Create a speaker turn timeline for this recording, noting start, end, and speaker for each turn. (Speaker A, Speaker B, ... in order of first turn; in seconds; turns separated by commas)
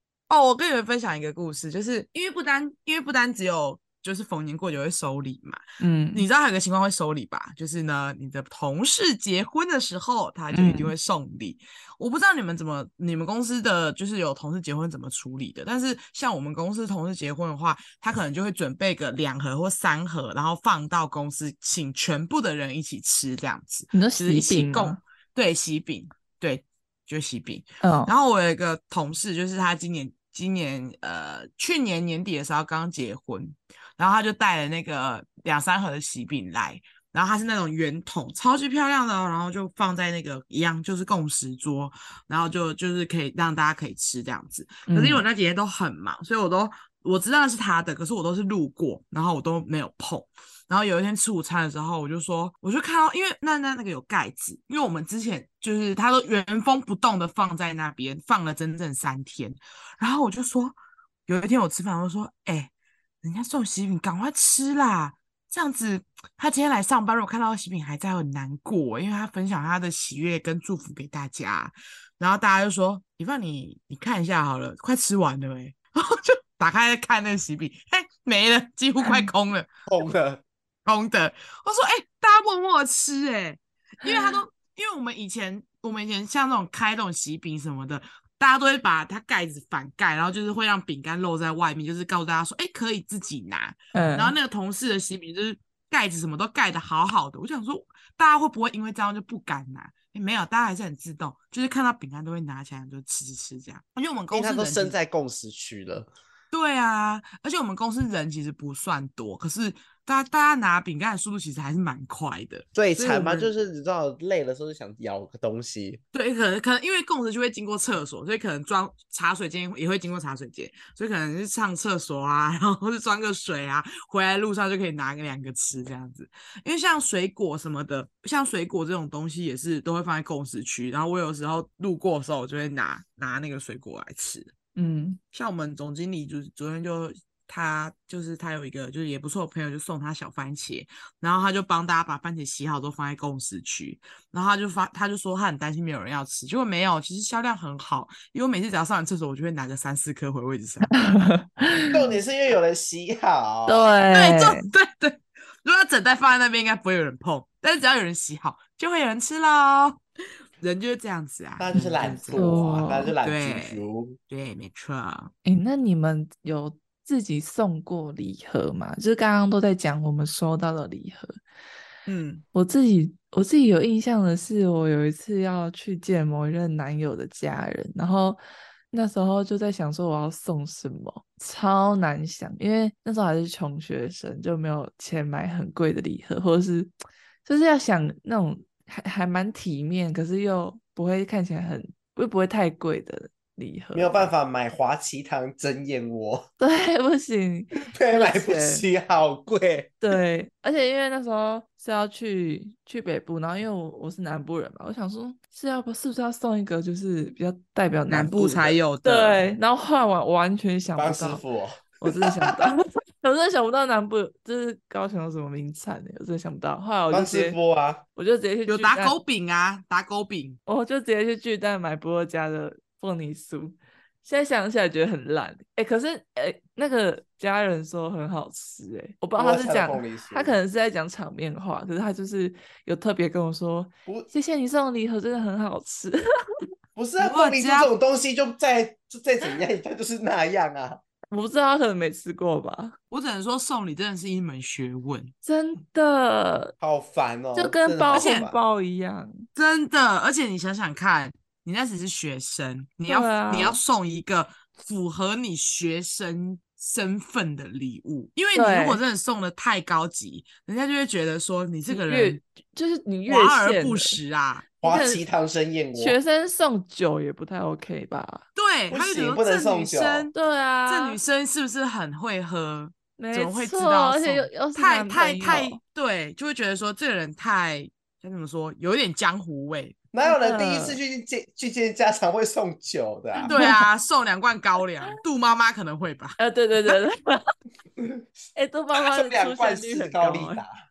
Speaker A: 0.3-5.6, Speaker B: 5.8-6.3, Speaker A: 6.1-62.7, Speaker B: 10.5-10.9, Speaker B: 23.9-25.0, Speaker B: 27.8-28.1, Speaker B: 44.9-45.2, Speaker A: 63.2-79.7, Speaker C: 79.9-80.4, Speaker A: 80.8-104.9, Speaker B: 84.0-84.4, Speaker B: 93.9-94.3, Speaker C: 104.3-106.1, Speaker A: 106.5-113.5, Speaker C: 112.7-116.0, Speaker A: 116.1-134.5, Speaker B: 134.8-135.2, Speaker A: 135.3-150.9, Speaker B: 150.9-152.1, Speaker C: 151.9-153.9, Speaker B: 153.7-154.7, Speaker A: 154.1-160.0, Speaker A: 160.6-162.5, Speaker C: 161.6-164.2, Speaker B: 162.3-163.1, Speaker A: 163.2-165.3, Speaker B: 165.4-171.3, Speaker A: 172.1-172.4, Speaker B: 172.5-178.4, Speaker B: 178.9-186.9, Speaker B: 187.4-194.3, Speaker C: 193.9-196.5, Speaker B: 196.6-198.9, Speaker C: 197.8-200.0, Speaker B: 200.0-211.4, Speaker A: 208.1-209.4, Speaker C: 210.9-212.7, Speaker B: 212.0-217.6, Speaker C: 217.1-218.0, Speaker B: 218.1-219.2, Speaker A: 218.7-220.6, Speaker B: 220.7-236.2, Speaker C: 229.3-230.6, Speaker C: 236.9-241.0, Speaker A: 237.2-237.9, Speaker B: 241.3-242.9, Speaker A: 243.1-245.3, Speaker B: 245.4-246.7, Speaker C: 246.8-248.6, Speaker B: 247.5-249.4, Speaker A: 248.1-248.4, Speaker A: 249.6-262.4, Speaker B: 253.1-253.8, Speaker B: 258.5-259.0, Speaker B: 261.9-264.2, Speaker A: 263.3-264.7, Speaker C: 264.8-266.2, Speaker B: 264.8-265.2, Speaker B: 265.9-268.4, Speaker A: 268.5-270.3, Speaker C: 268.9-270.3, Speaker B: 270.3-271.2, Speaker A: 270.9-280.0, Speaker B: 273.2-275.8, Speaker C: 280.1-283.6, Speaker B: 280.2-281.0, Speaker B: 283.4-283.8, Speaker A: 283.5-287.0, Speaker B: 286.4-287.4, Speaker C: 288.0-288.2, Speaker B: 288.5-290.6, Speaker C: 289.0-290.7